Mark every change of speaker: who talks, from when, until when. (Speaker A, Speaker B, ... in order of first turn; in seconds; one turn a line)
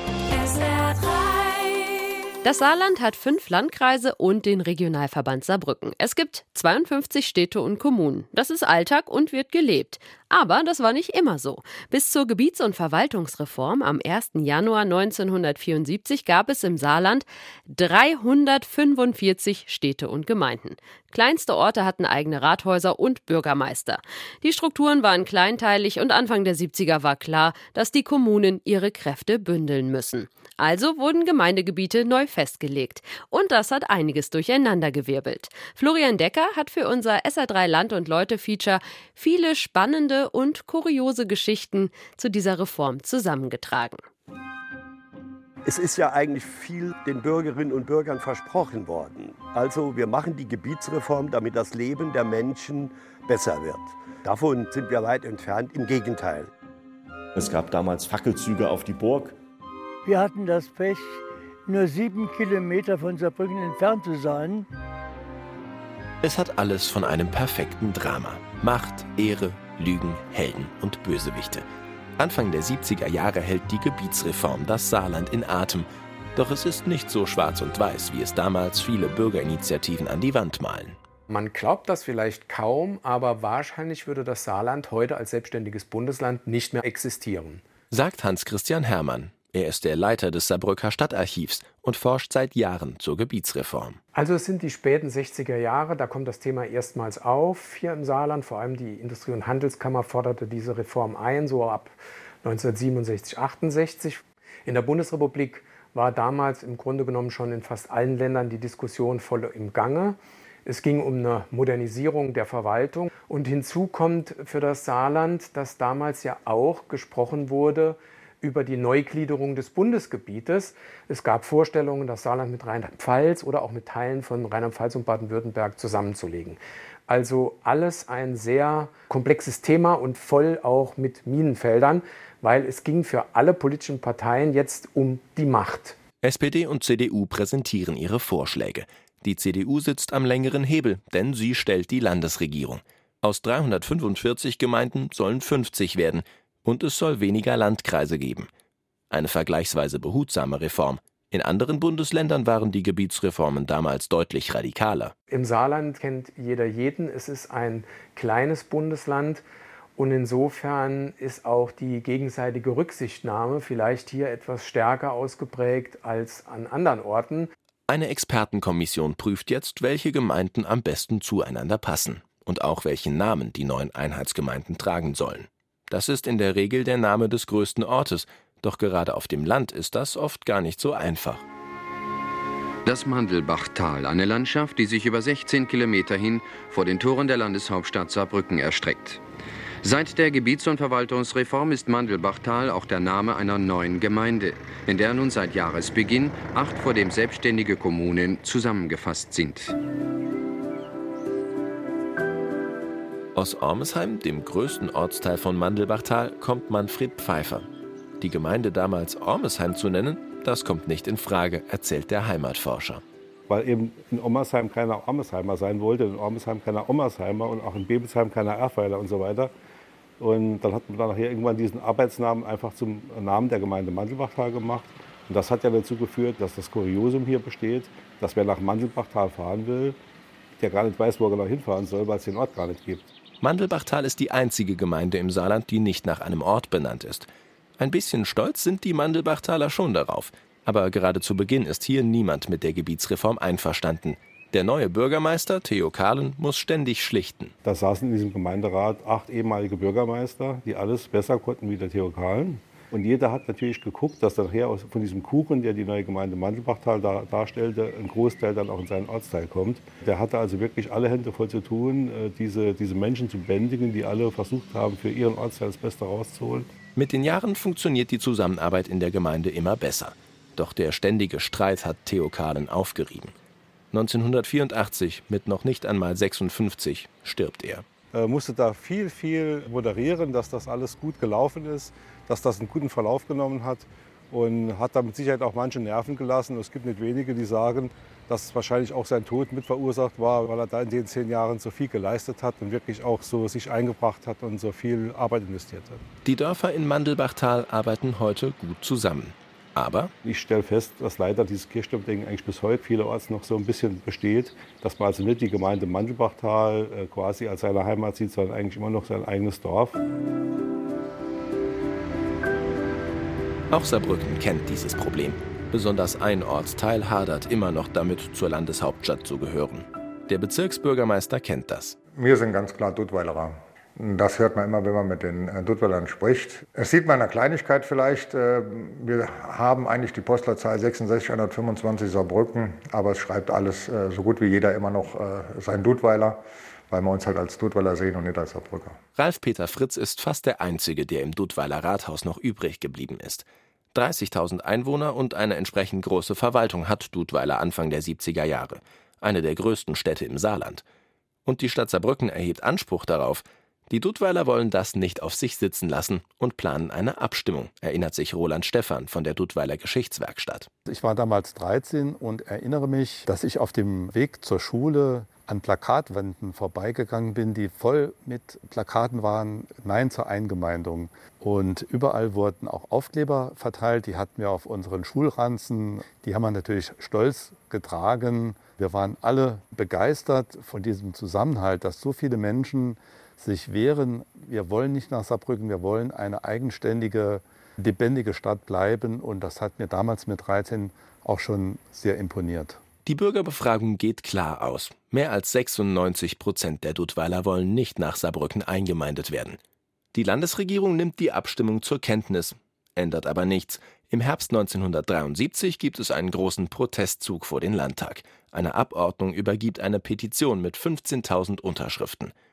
Speaker A: 0.3-1.9
Speaker A: 2.4-44.0
Speaker B: 45.6-56.5
Speaker C: 57.4-59.4
Speaker D: 60.0-64.7
Speaker E: 66.2-71.7
Speaker E: 72.2-81.0
Speaker F: 81.3-87.6
Speaker E: 87.9-94.0
Speaker F: 94.1-136.0
Speaker E: 136.2-148.5
Speaker E: 149.1-155.1
Speaker F: 155.3-159.4
Speaker F: 160.0-167.5
Speaker E: 167.9-181.4
Speaker G: 182.8-189.2
Speaker G: 189.8-199.8
Speaker E: 203.3-207.7
Speaker E: 208.2-213.0
Speaker H: 213.5-219.5
Speaker H: 220.2-230.0
Speaker H: 230.6-233.1
Speaker E: 233.4-237.3
Speaker E: 237.8-247.6
Speaker H: 247.6-266.7
Speaker E: 266.9-273.3
Speaker E: 273.9-277.9
Speaker H: 278.1-296.0
Speaker E: 296.2-300.1
Speaker H: 300.2-310.0
Speaker E: 313.7-322.0
Speaker I: 322.2-339.0
Speaker E: 339.2-350.8
Speaker E: 351.4-360.7
Speaker J: 360.9-392.8
Speaker E: 393.1-399.6
Speaker E: 400.1-412.3